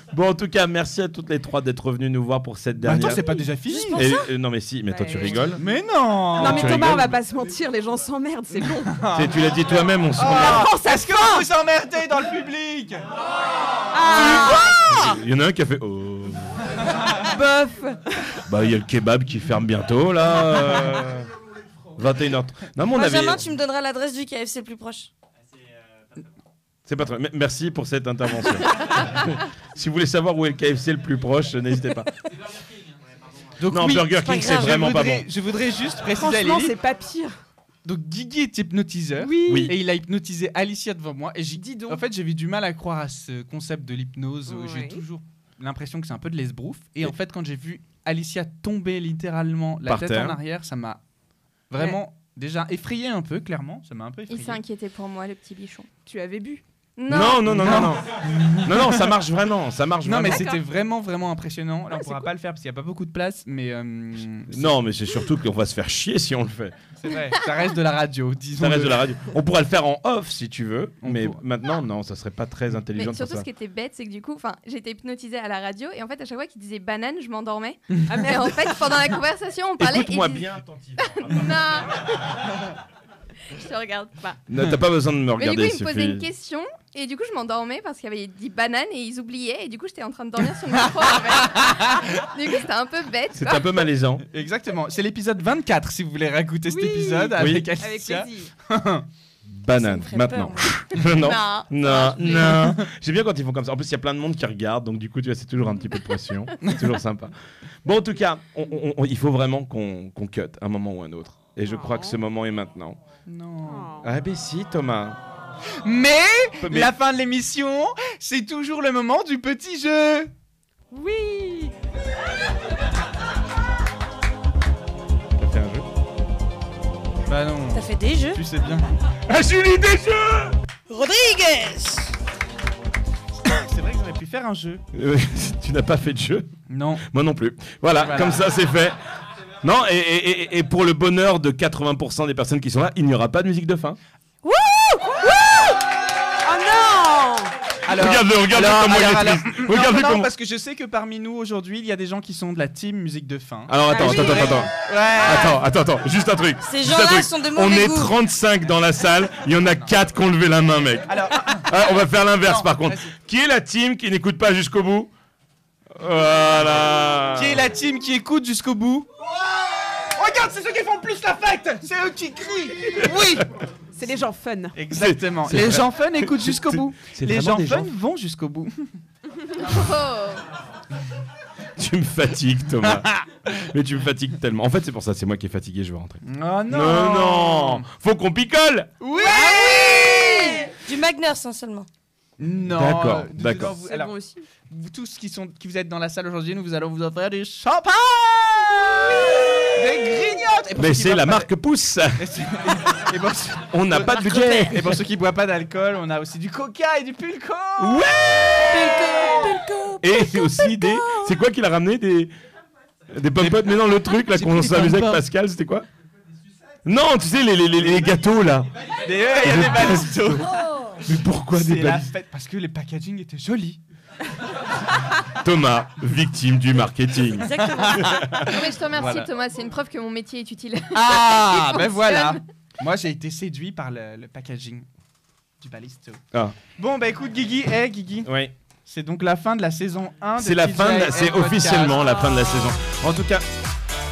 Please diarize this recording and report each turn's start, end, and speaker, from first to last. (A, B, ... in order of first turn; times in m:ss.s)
0:00.1-0:03.3 A
0:02.8-0:04.1 B
0:03.7-0:04.2 C
0:03.9-0:05.6 A
0:04.9-0:05.7 C
0:05.6-0:07.1 B
0:06.4-0:07.2 A
0:06.4-0:09.0 C
0:08.6-0:09.3 B
0:09.1-0:10.7 A
0:10.2-0:13.0 B
0:10.4-0:11.5 C
0:13.9-0:14.9 C
0:14.2-0:14.5 B
0:14.8-0:16.6 A
0:17.3-0:18.0 C
0:18.5-0:21.3 A
0:22.0-0:23.5 A
0:22.9-0:25.1 D
0:26.9-0:32.1 A
0:33.6-0:36.8 B
0:33.7-0:35.3 A
0:34.1-0:34.8 D
0:36.1-0:37.4 C
0:37.8-0:51.0 B
0:39.2-0:39.8 C
0:39.5-0:39.7 A
0:41.6-0:42.0 C
0:44.5-0:45.0 C
0:49.9-0:50.4 A
0:51.7-0:54.6 B
0:54.3-0:55.9 E
0:56.1-0:56.6 C
0:57.0-0:57.4 E
0:57.1-1:00.5 A
0:57.4-0:59.1 B
1:00.0-1:04.7 B
1:00.3-1:00.6 C
1:04.5-1:06.7 A
1:07.0-1:09.1 B
1:08.6-1:13.5 A
1:11.0-1:11.4 B
1:13.0-1:22.0 E
1:17.9-1:18.3 B
1:19.8-1:21.6 A
1:23.5-1:24.4 E
1:24.5-1:26.3 A
1:25.4-1:33.8 E
1:33.3-1:34.2 A
1:34.3-1:39.0 B
1:36.7-1:38.5 C
1:37.4-1:37.7 A
1:39.5-1:47.3 A
1:39.7-1:40.8 D
1:41.2-1:41.7 E
1:42.4-1:42.9 B
1:47.8-1:53.0 A
1:51.6-1:52.2 C
1:53.3-1:53.9 B
1:53.6-1:54.1 C
1:54.0-1:55.2 A
1:55.8-2:00.3 B
1:56.6-1:56.9 A
2:00.9-2:01.8 C
2:05.4-2:05.8 A
2:07.3-2:08.9 B
2:07.7-2:08.4 D
2:09.3-2:10.6 A
2:10.9-2:12.1 D
2:13.4-2:14.8 B
2:14.9-2:16.6 A
2:16.7-2:17.0 B
2:17.1-2:19.0 A
2:18.0-2:18.4 B
2:19.6-2:24.0 A
2:24.5-2:25.7 C
2:26.4-2:27.5 C
2:27.9-2:35.6 B
2:28.0-2:30.3 A
2:33.7-2:45.1 A
2:33.9-2:35.4 C
2:36.6-2:38.2 D
2:41.1-2:41.7 B
2:42.4-2:43.1 B
2:46.0-2:47.6 A
2:47.4-2:49.1 B
2:50.0-2:53.4 B
2:53.0-2:53.4 C
2:54.0-2:54.8 C
2:54.8-2:59.0 B
2:54.9-2:57.9 A
2:59.6-3:00.4 E
3:01.8-3:08.9 A
3:02.8-3:03.3 B
3:06.2-3:07.8 B
3:09.0-3:10.6 B
3:09.2-3:10.7 C
3:09.2-3:11.9 D
3:12.4-3:14.2 B
3:12.7-3:13.8 A
3:13.6-3:14.4 C
3:14.7-3:21.5 B
3:20.8-3:22.2 A
3:22.2-3:29.6 B
3:23.7-3:25.0 A
3:27.8-3:28.7 A
3:28.7-3:30.5 C
3:30.0-3:32.3 A
3:33.1-3:35.9 A
3:33.4-3:35.2 B
3:36.8-3:38.7 A
3:39.0-3:40.8 B
3:39.4-3:42.1 A
3:41.5-3:43.8 B
3:45.4-3:48.5 A
3:47.4-3:48.0 D
3:47.6-3:49.3 B
3:48.5-3:52.4 E
3:50.9-3:54.9 B
3:55.6-3:56.2 B
3:56.8-3:58.3 B
3:58.2-3:58.5 A
3:58.9-4:02.2 B
4:00.4-4:03.4 A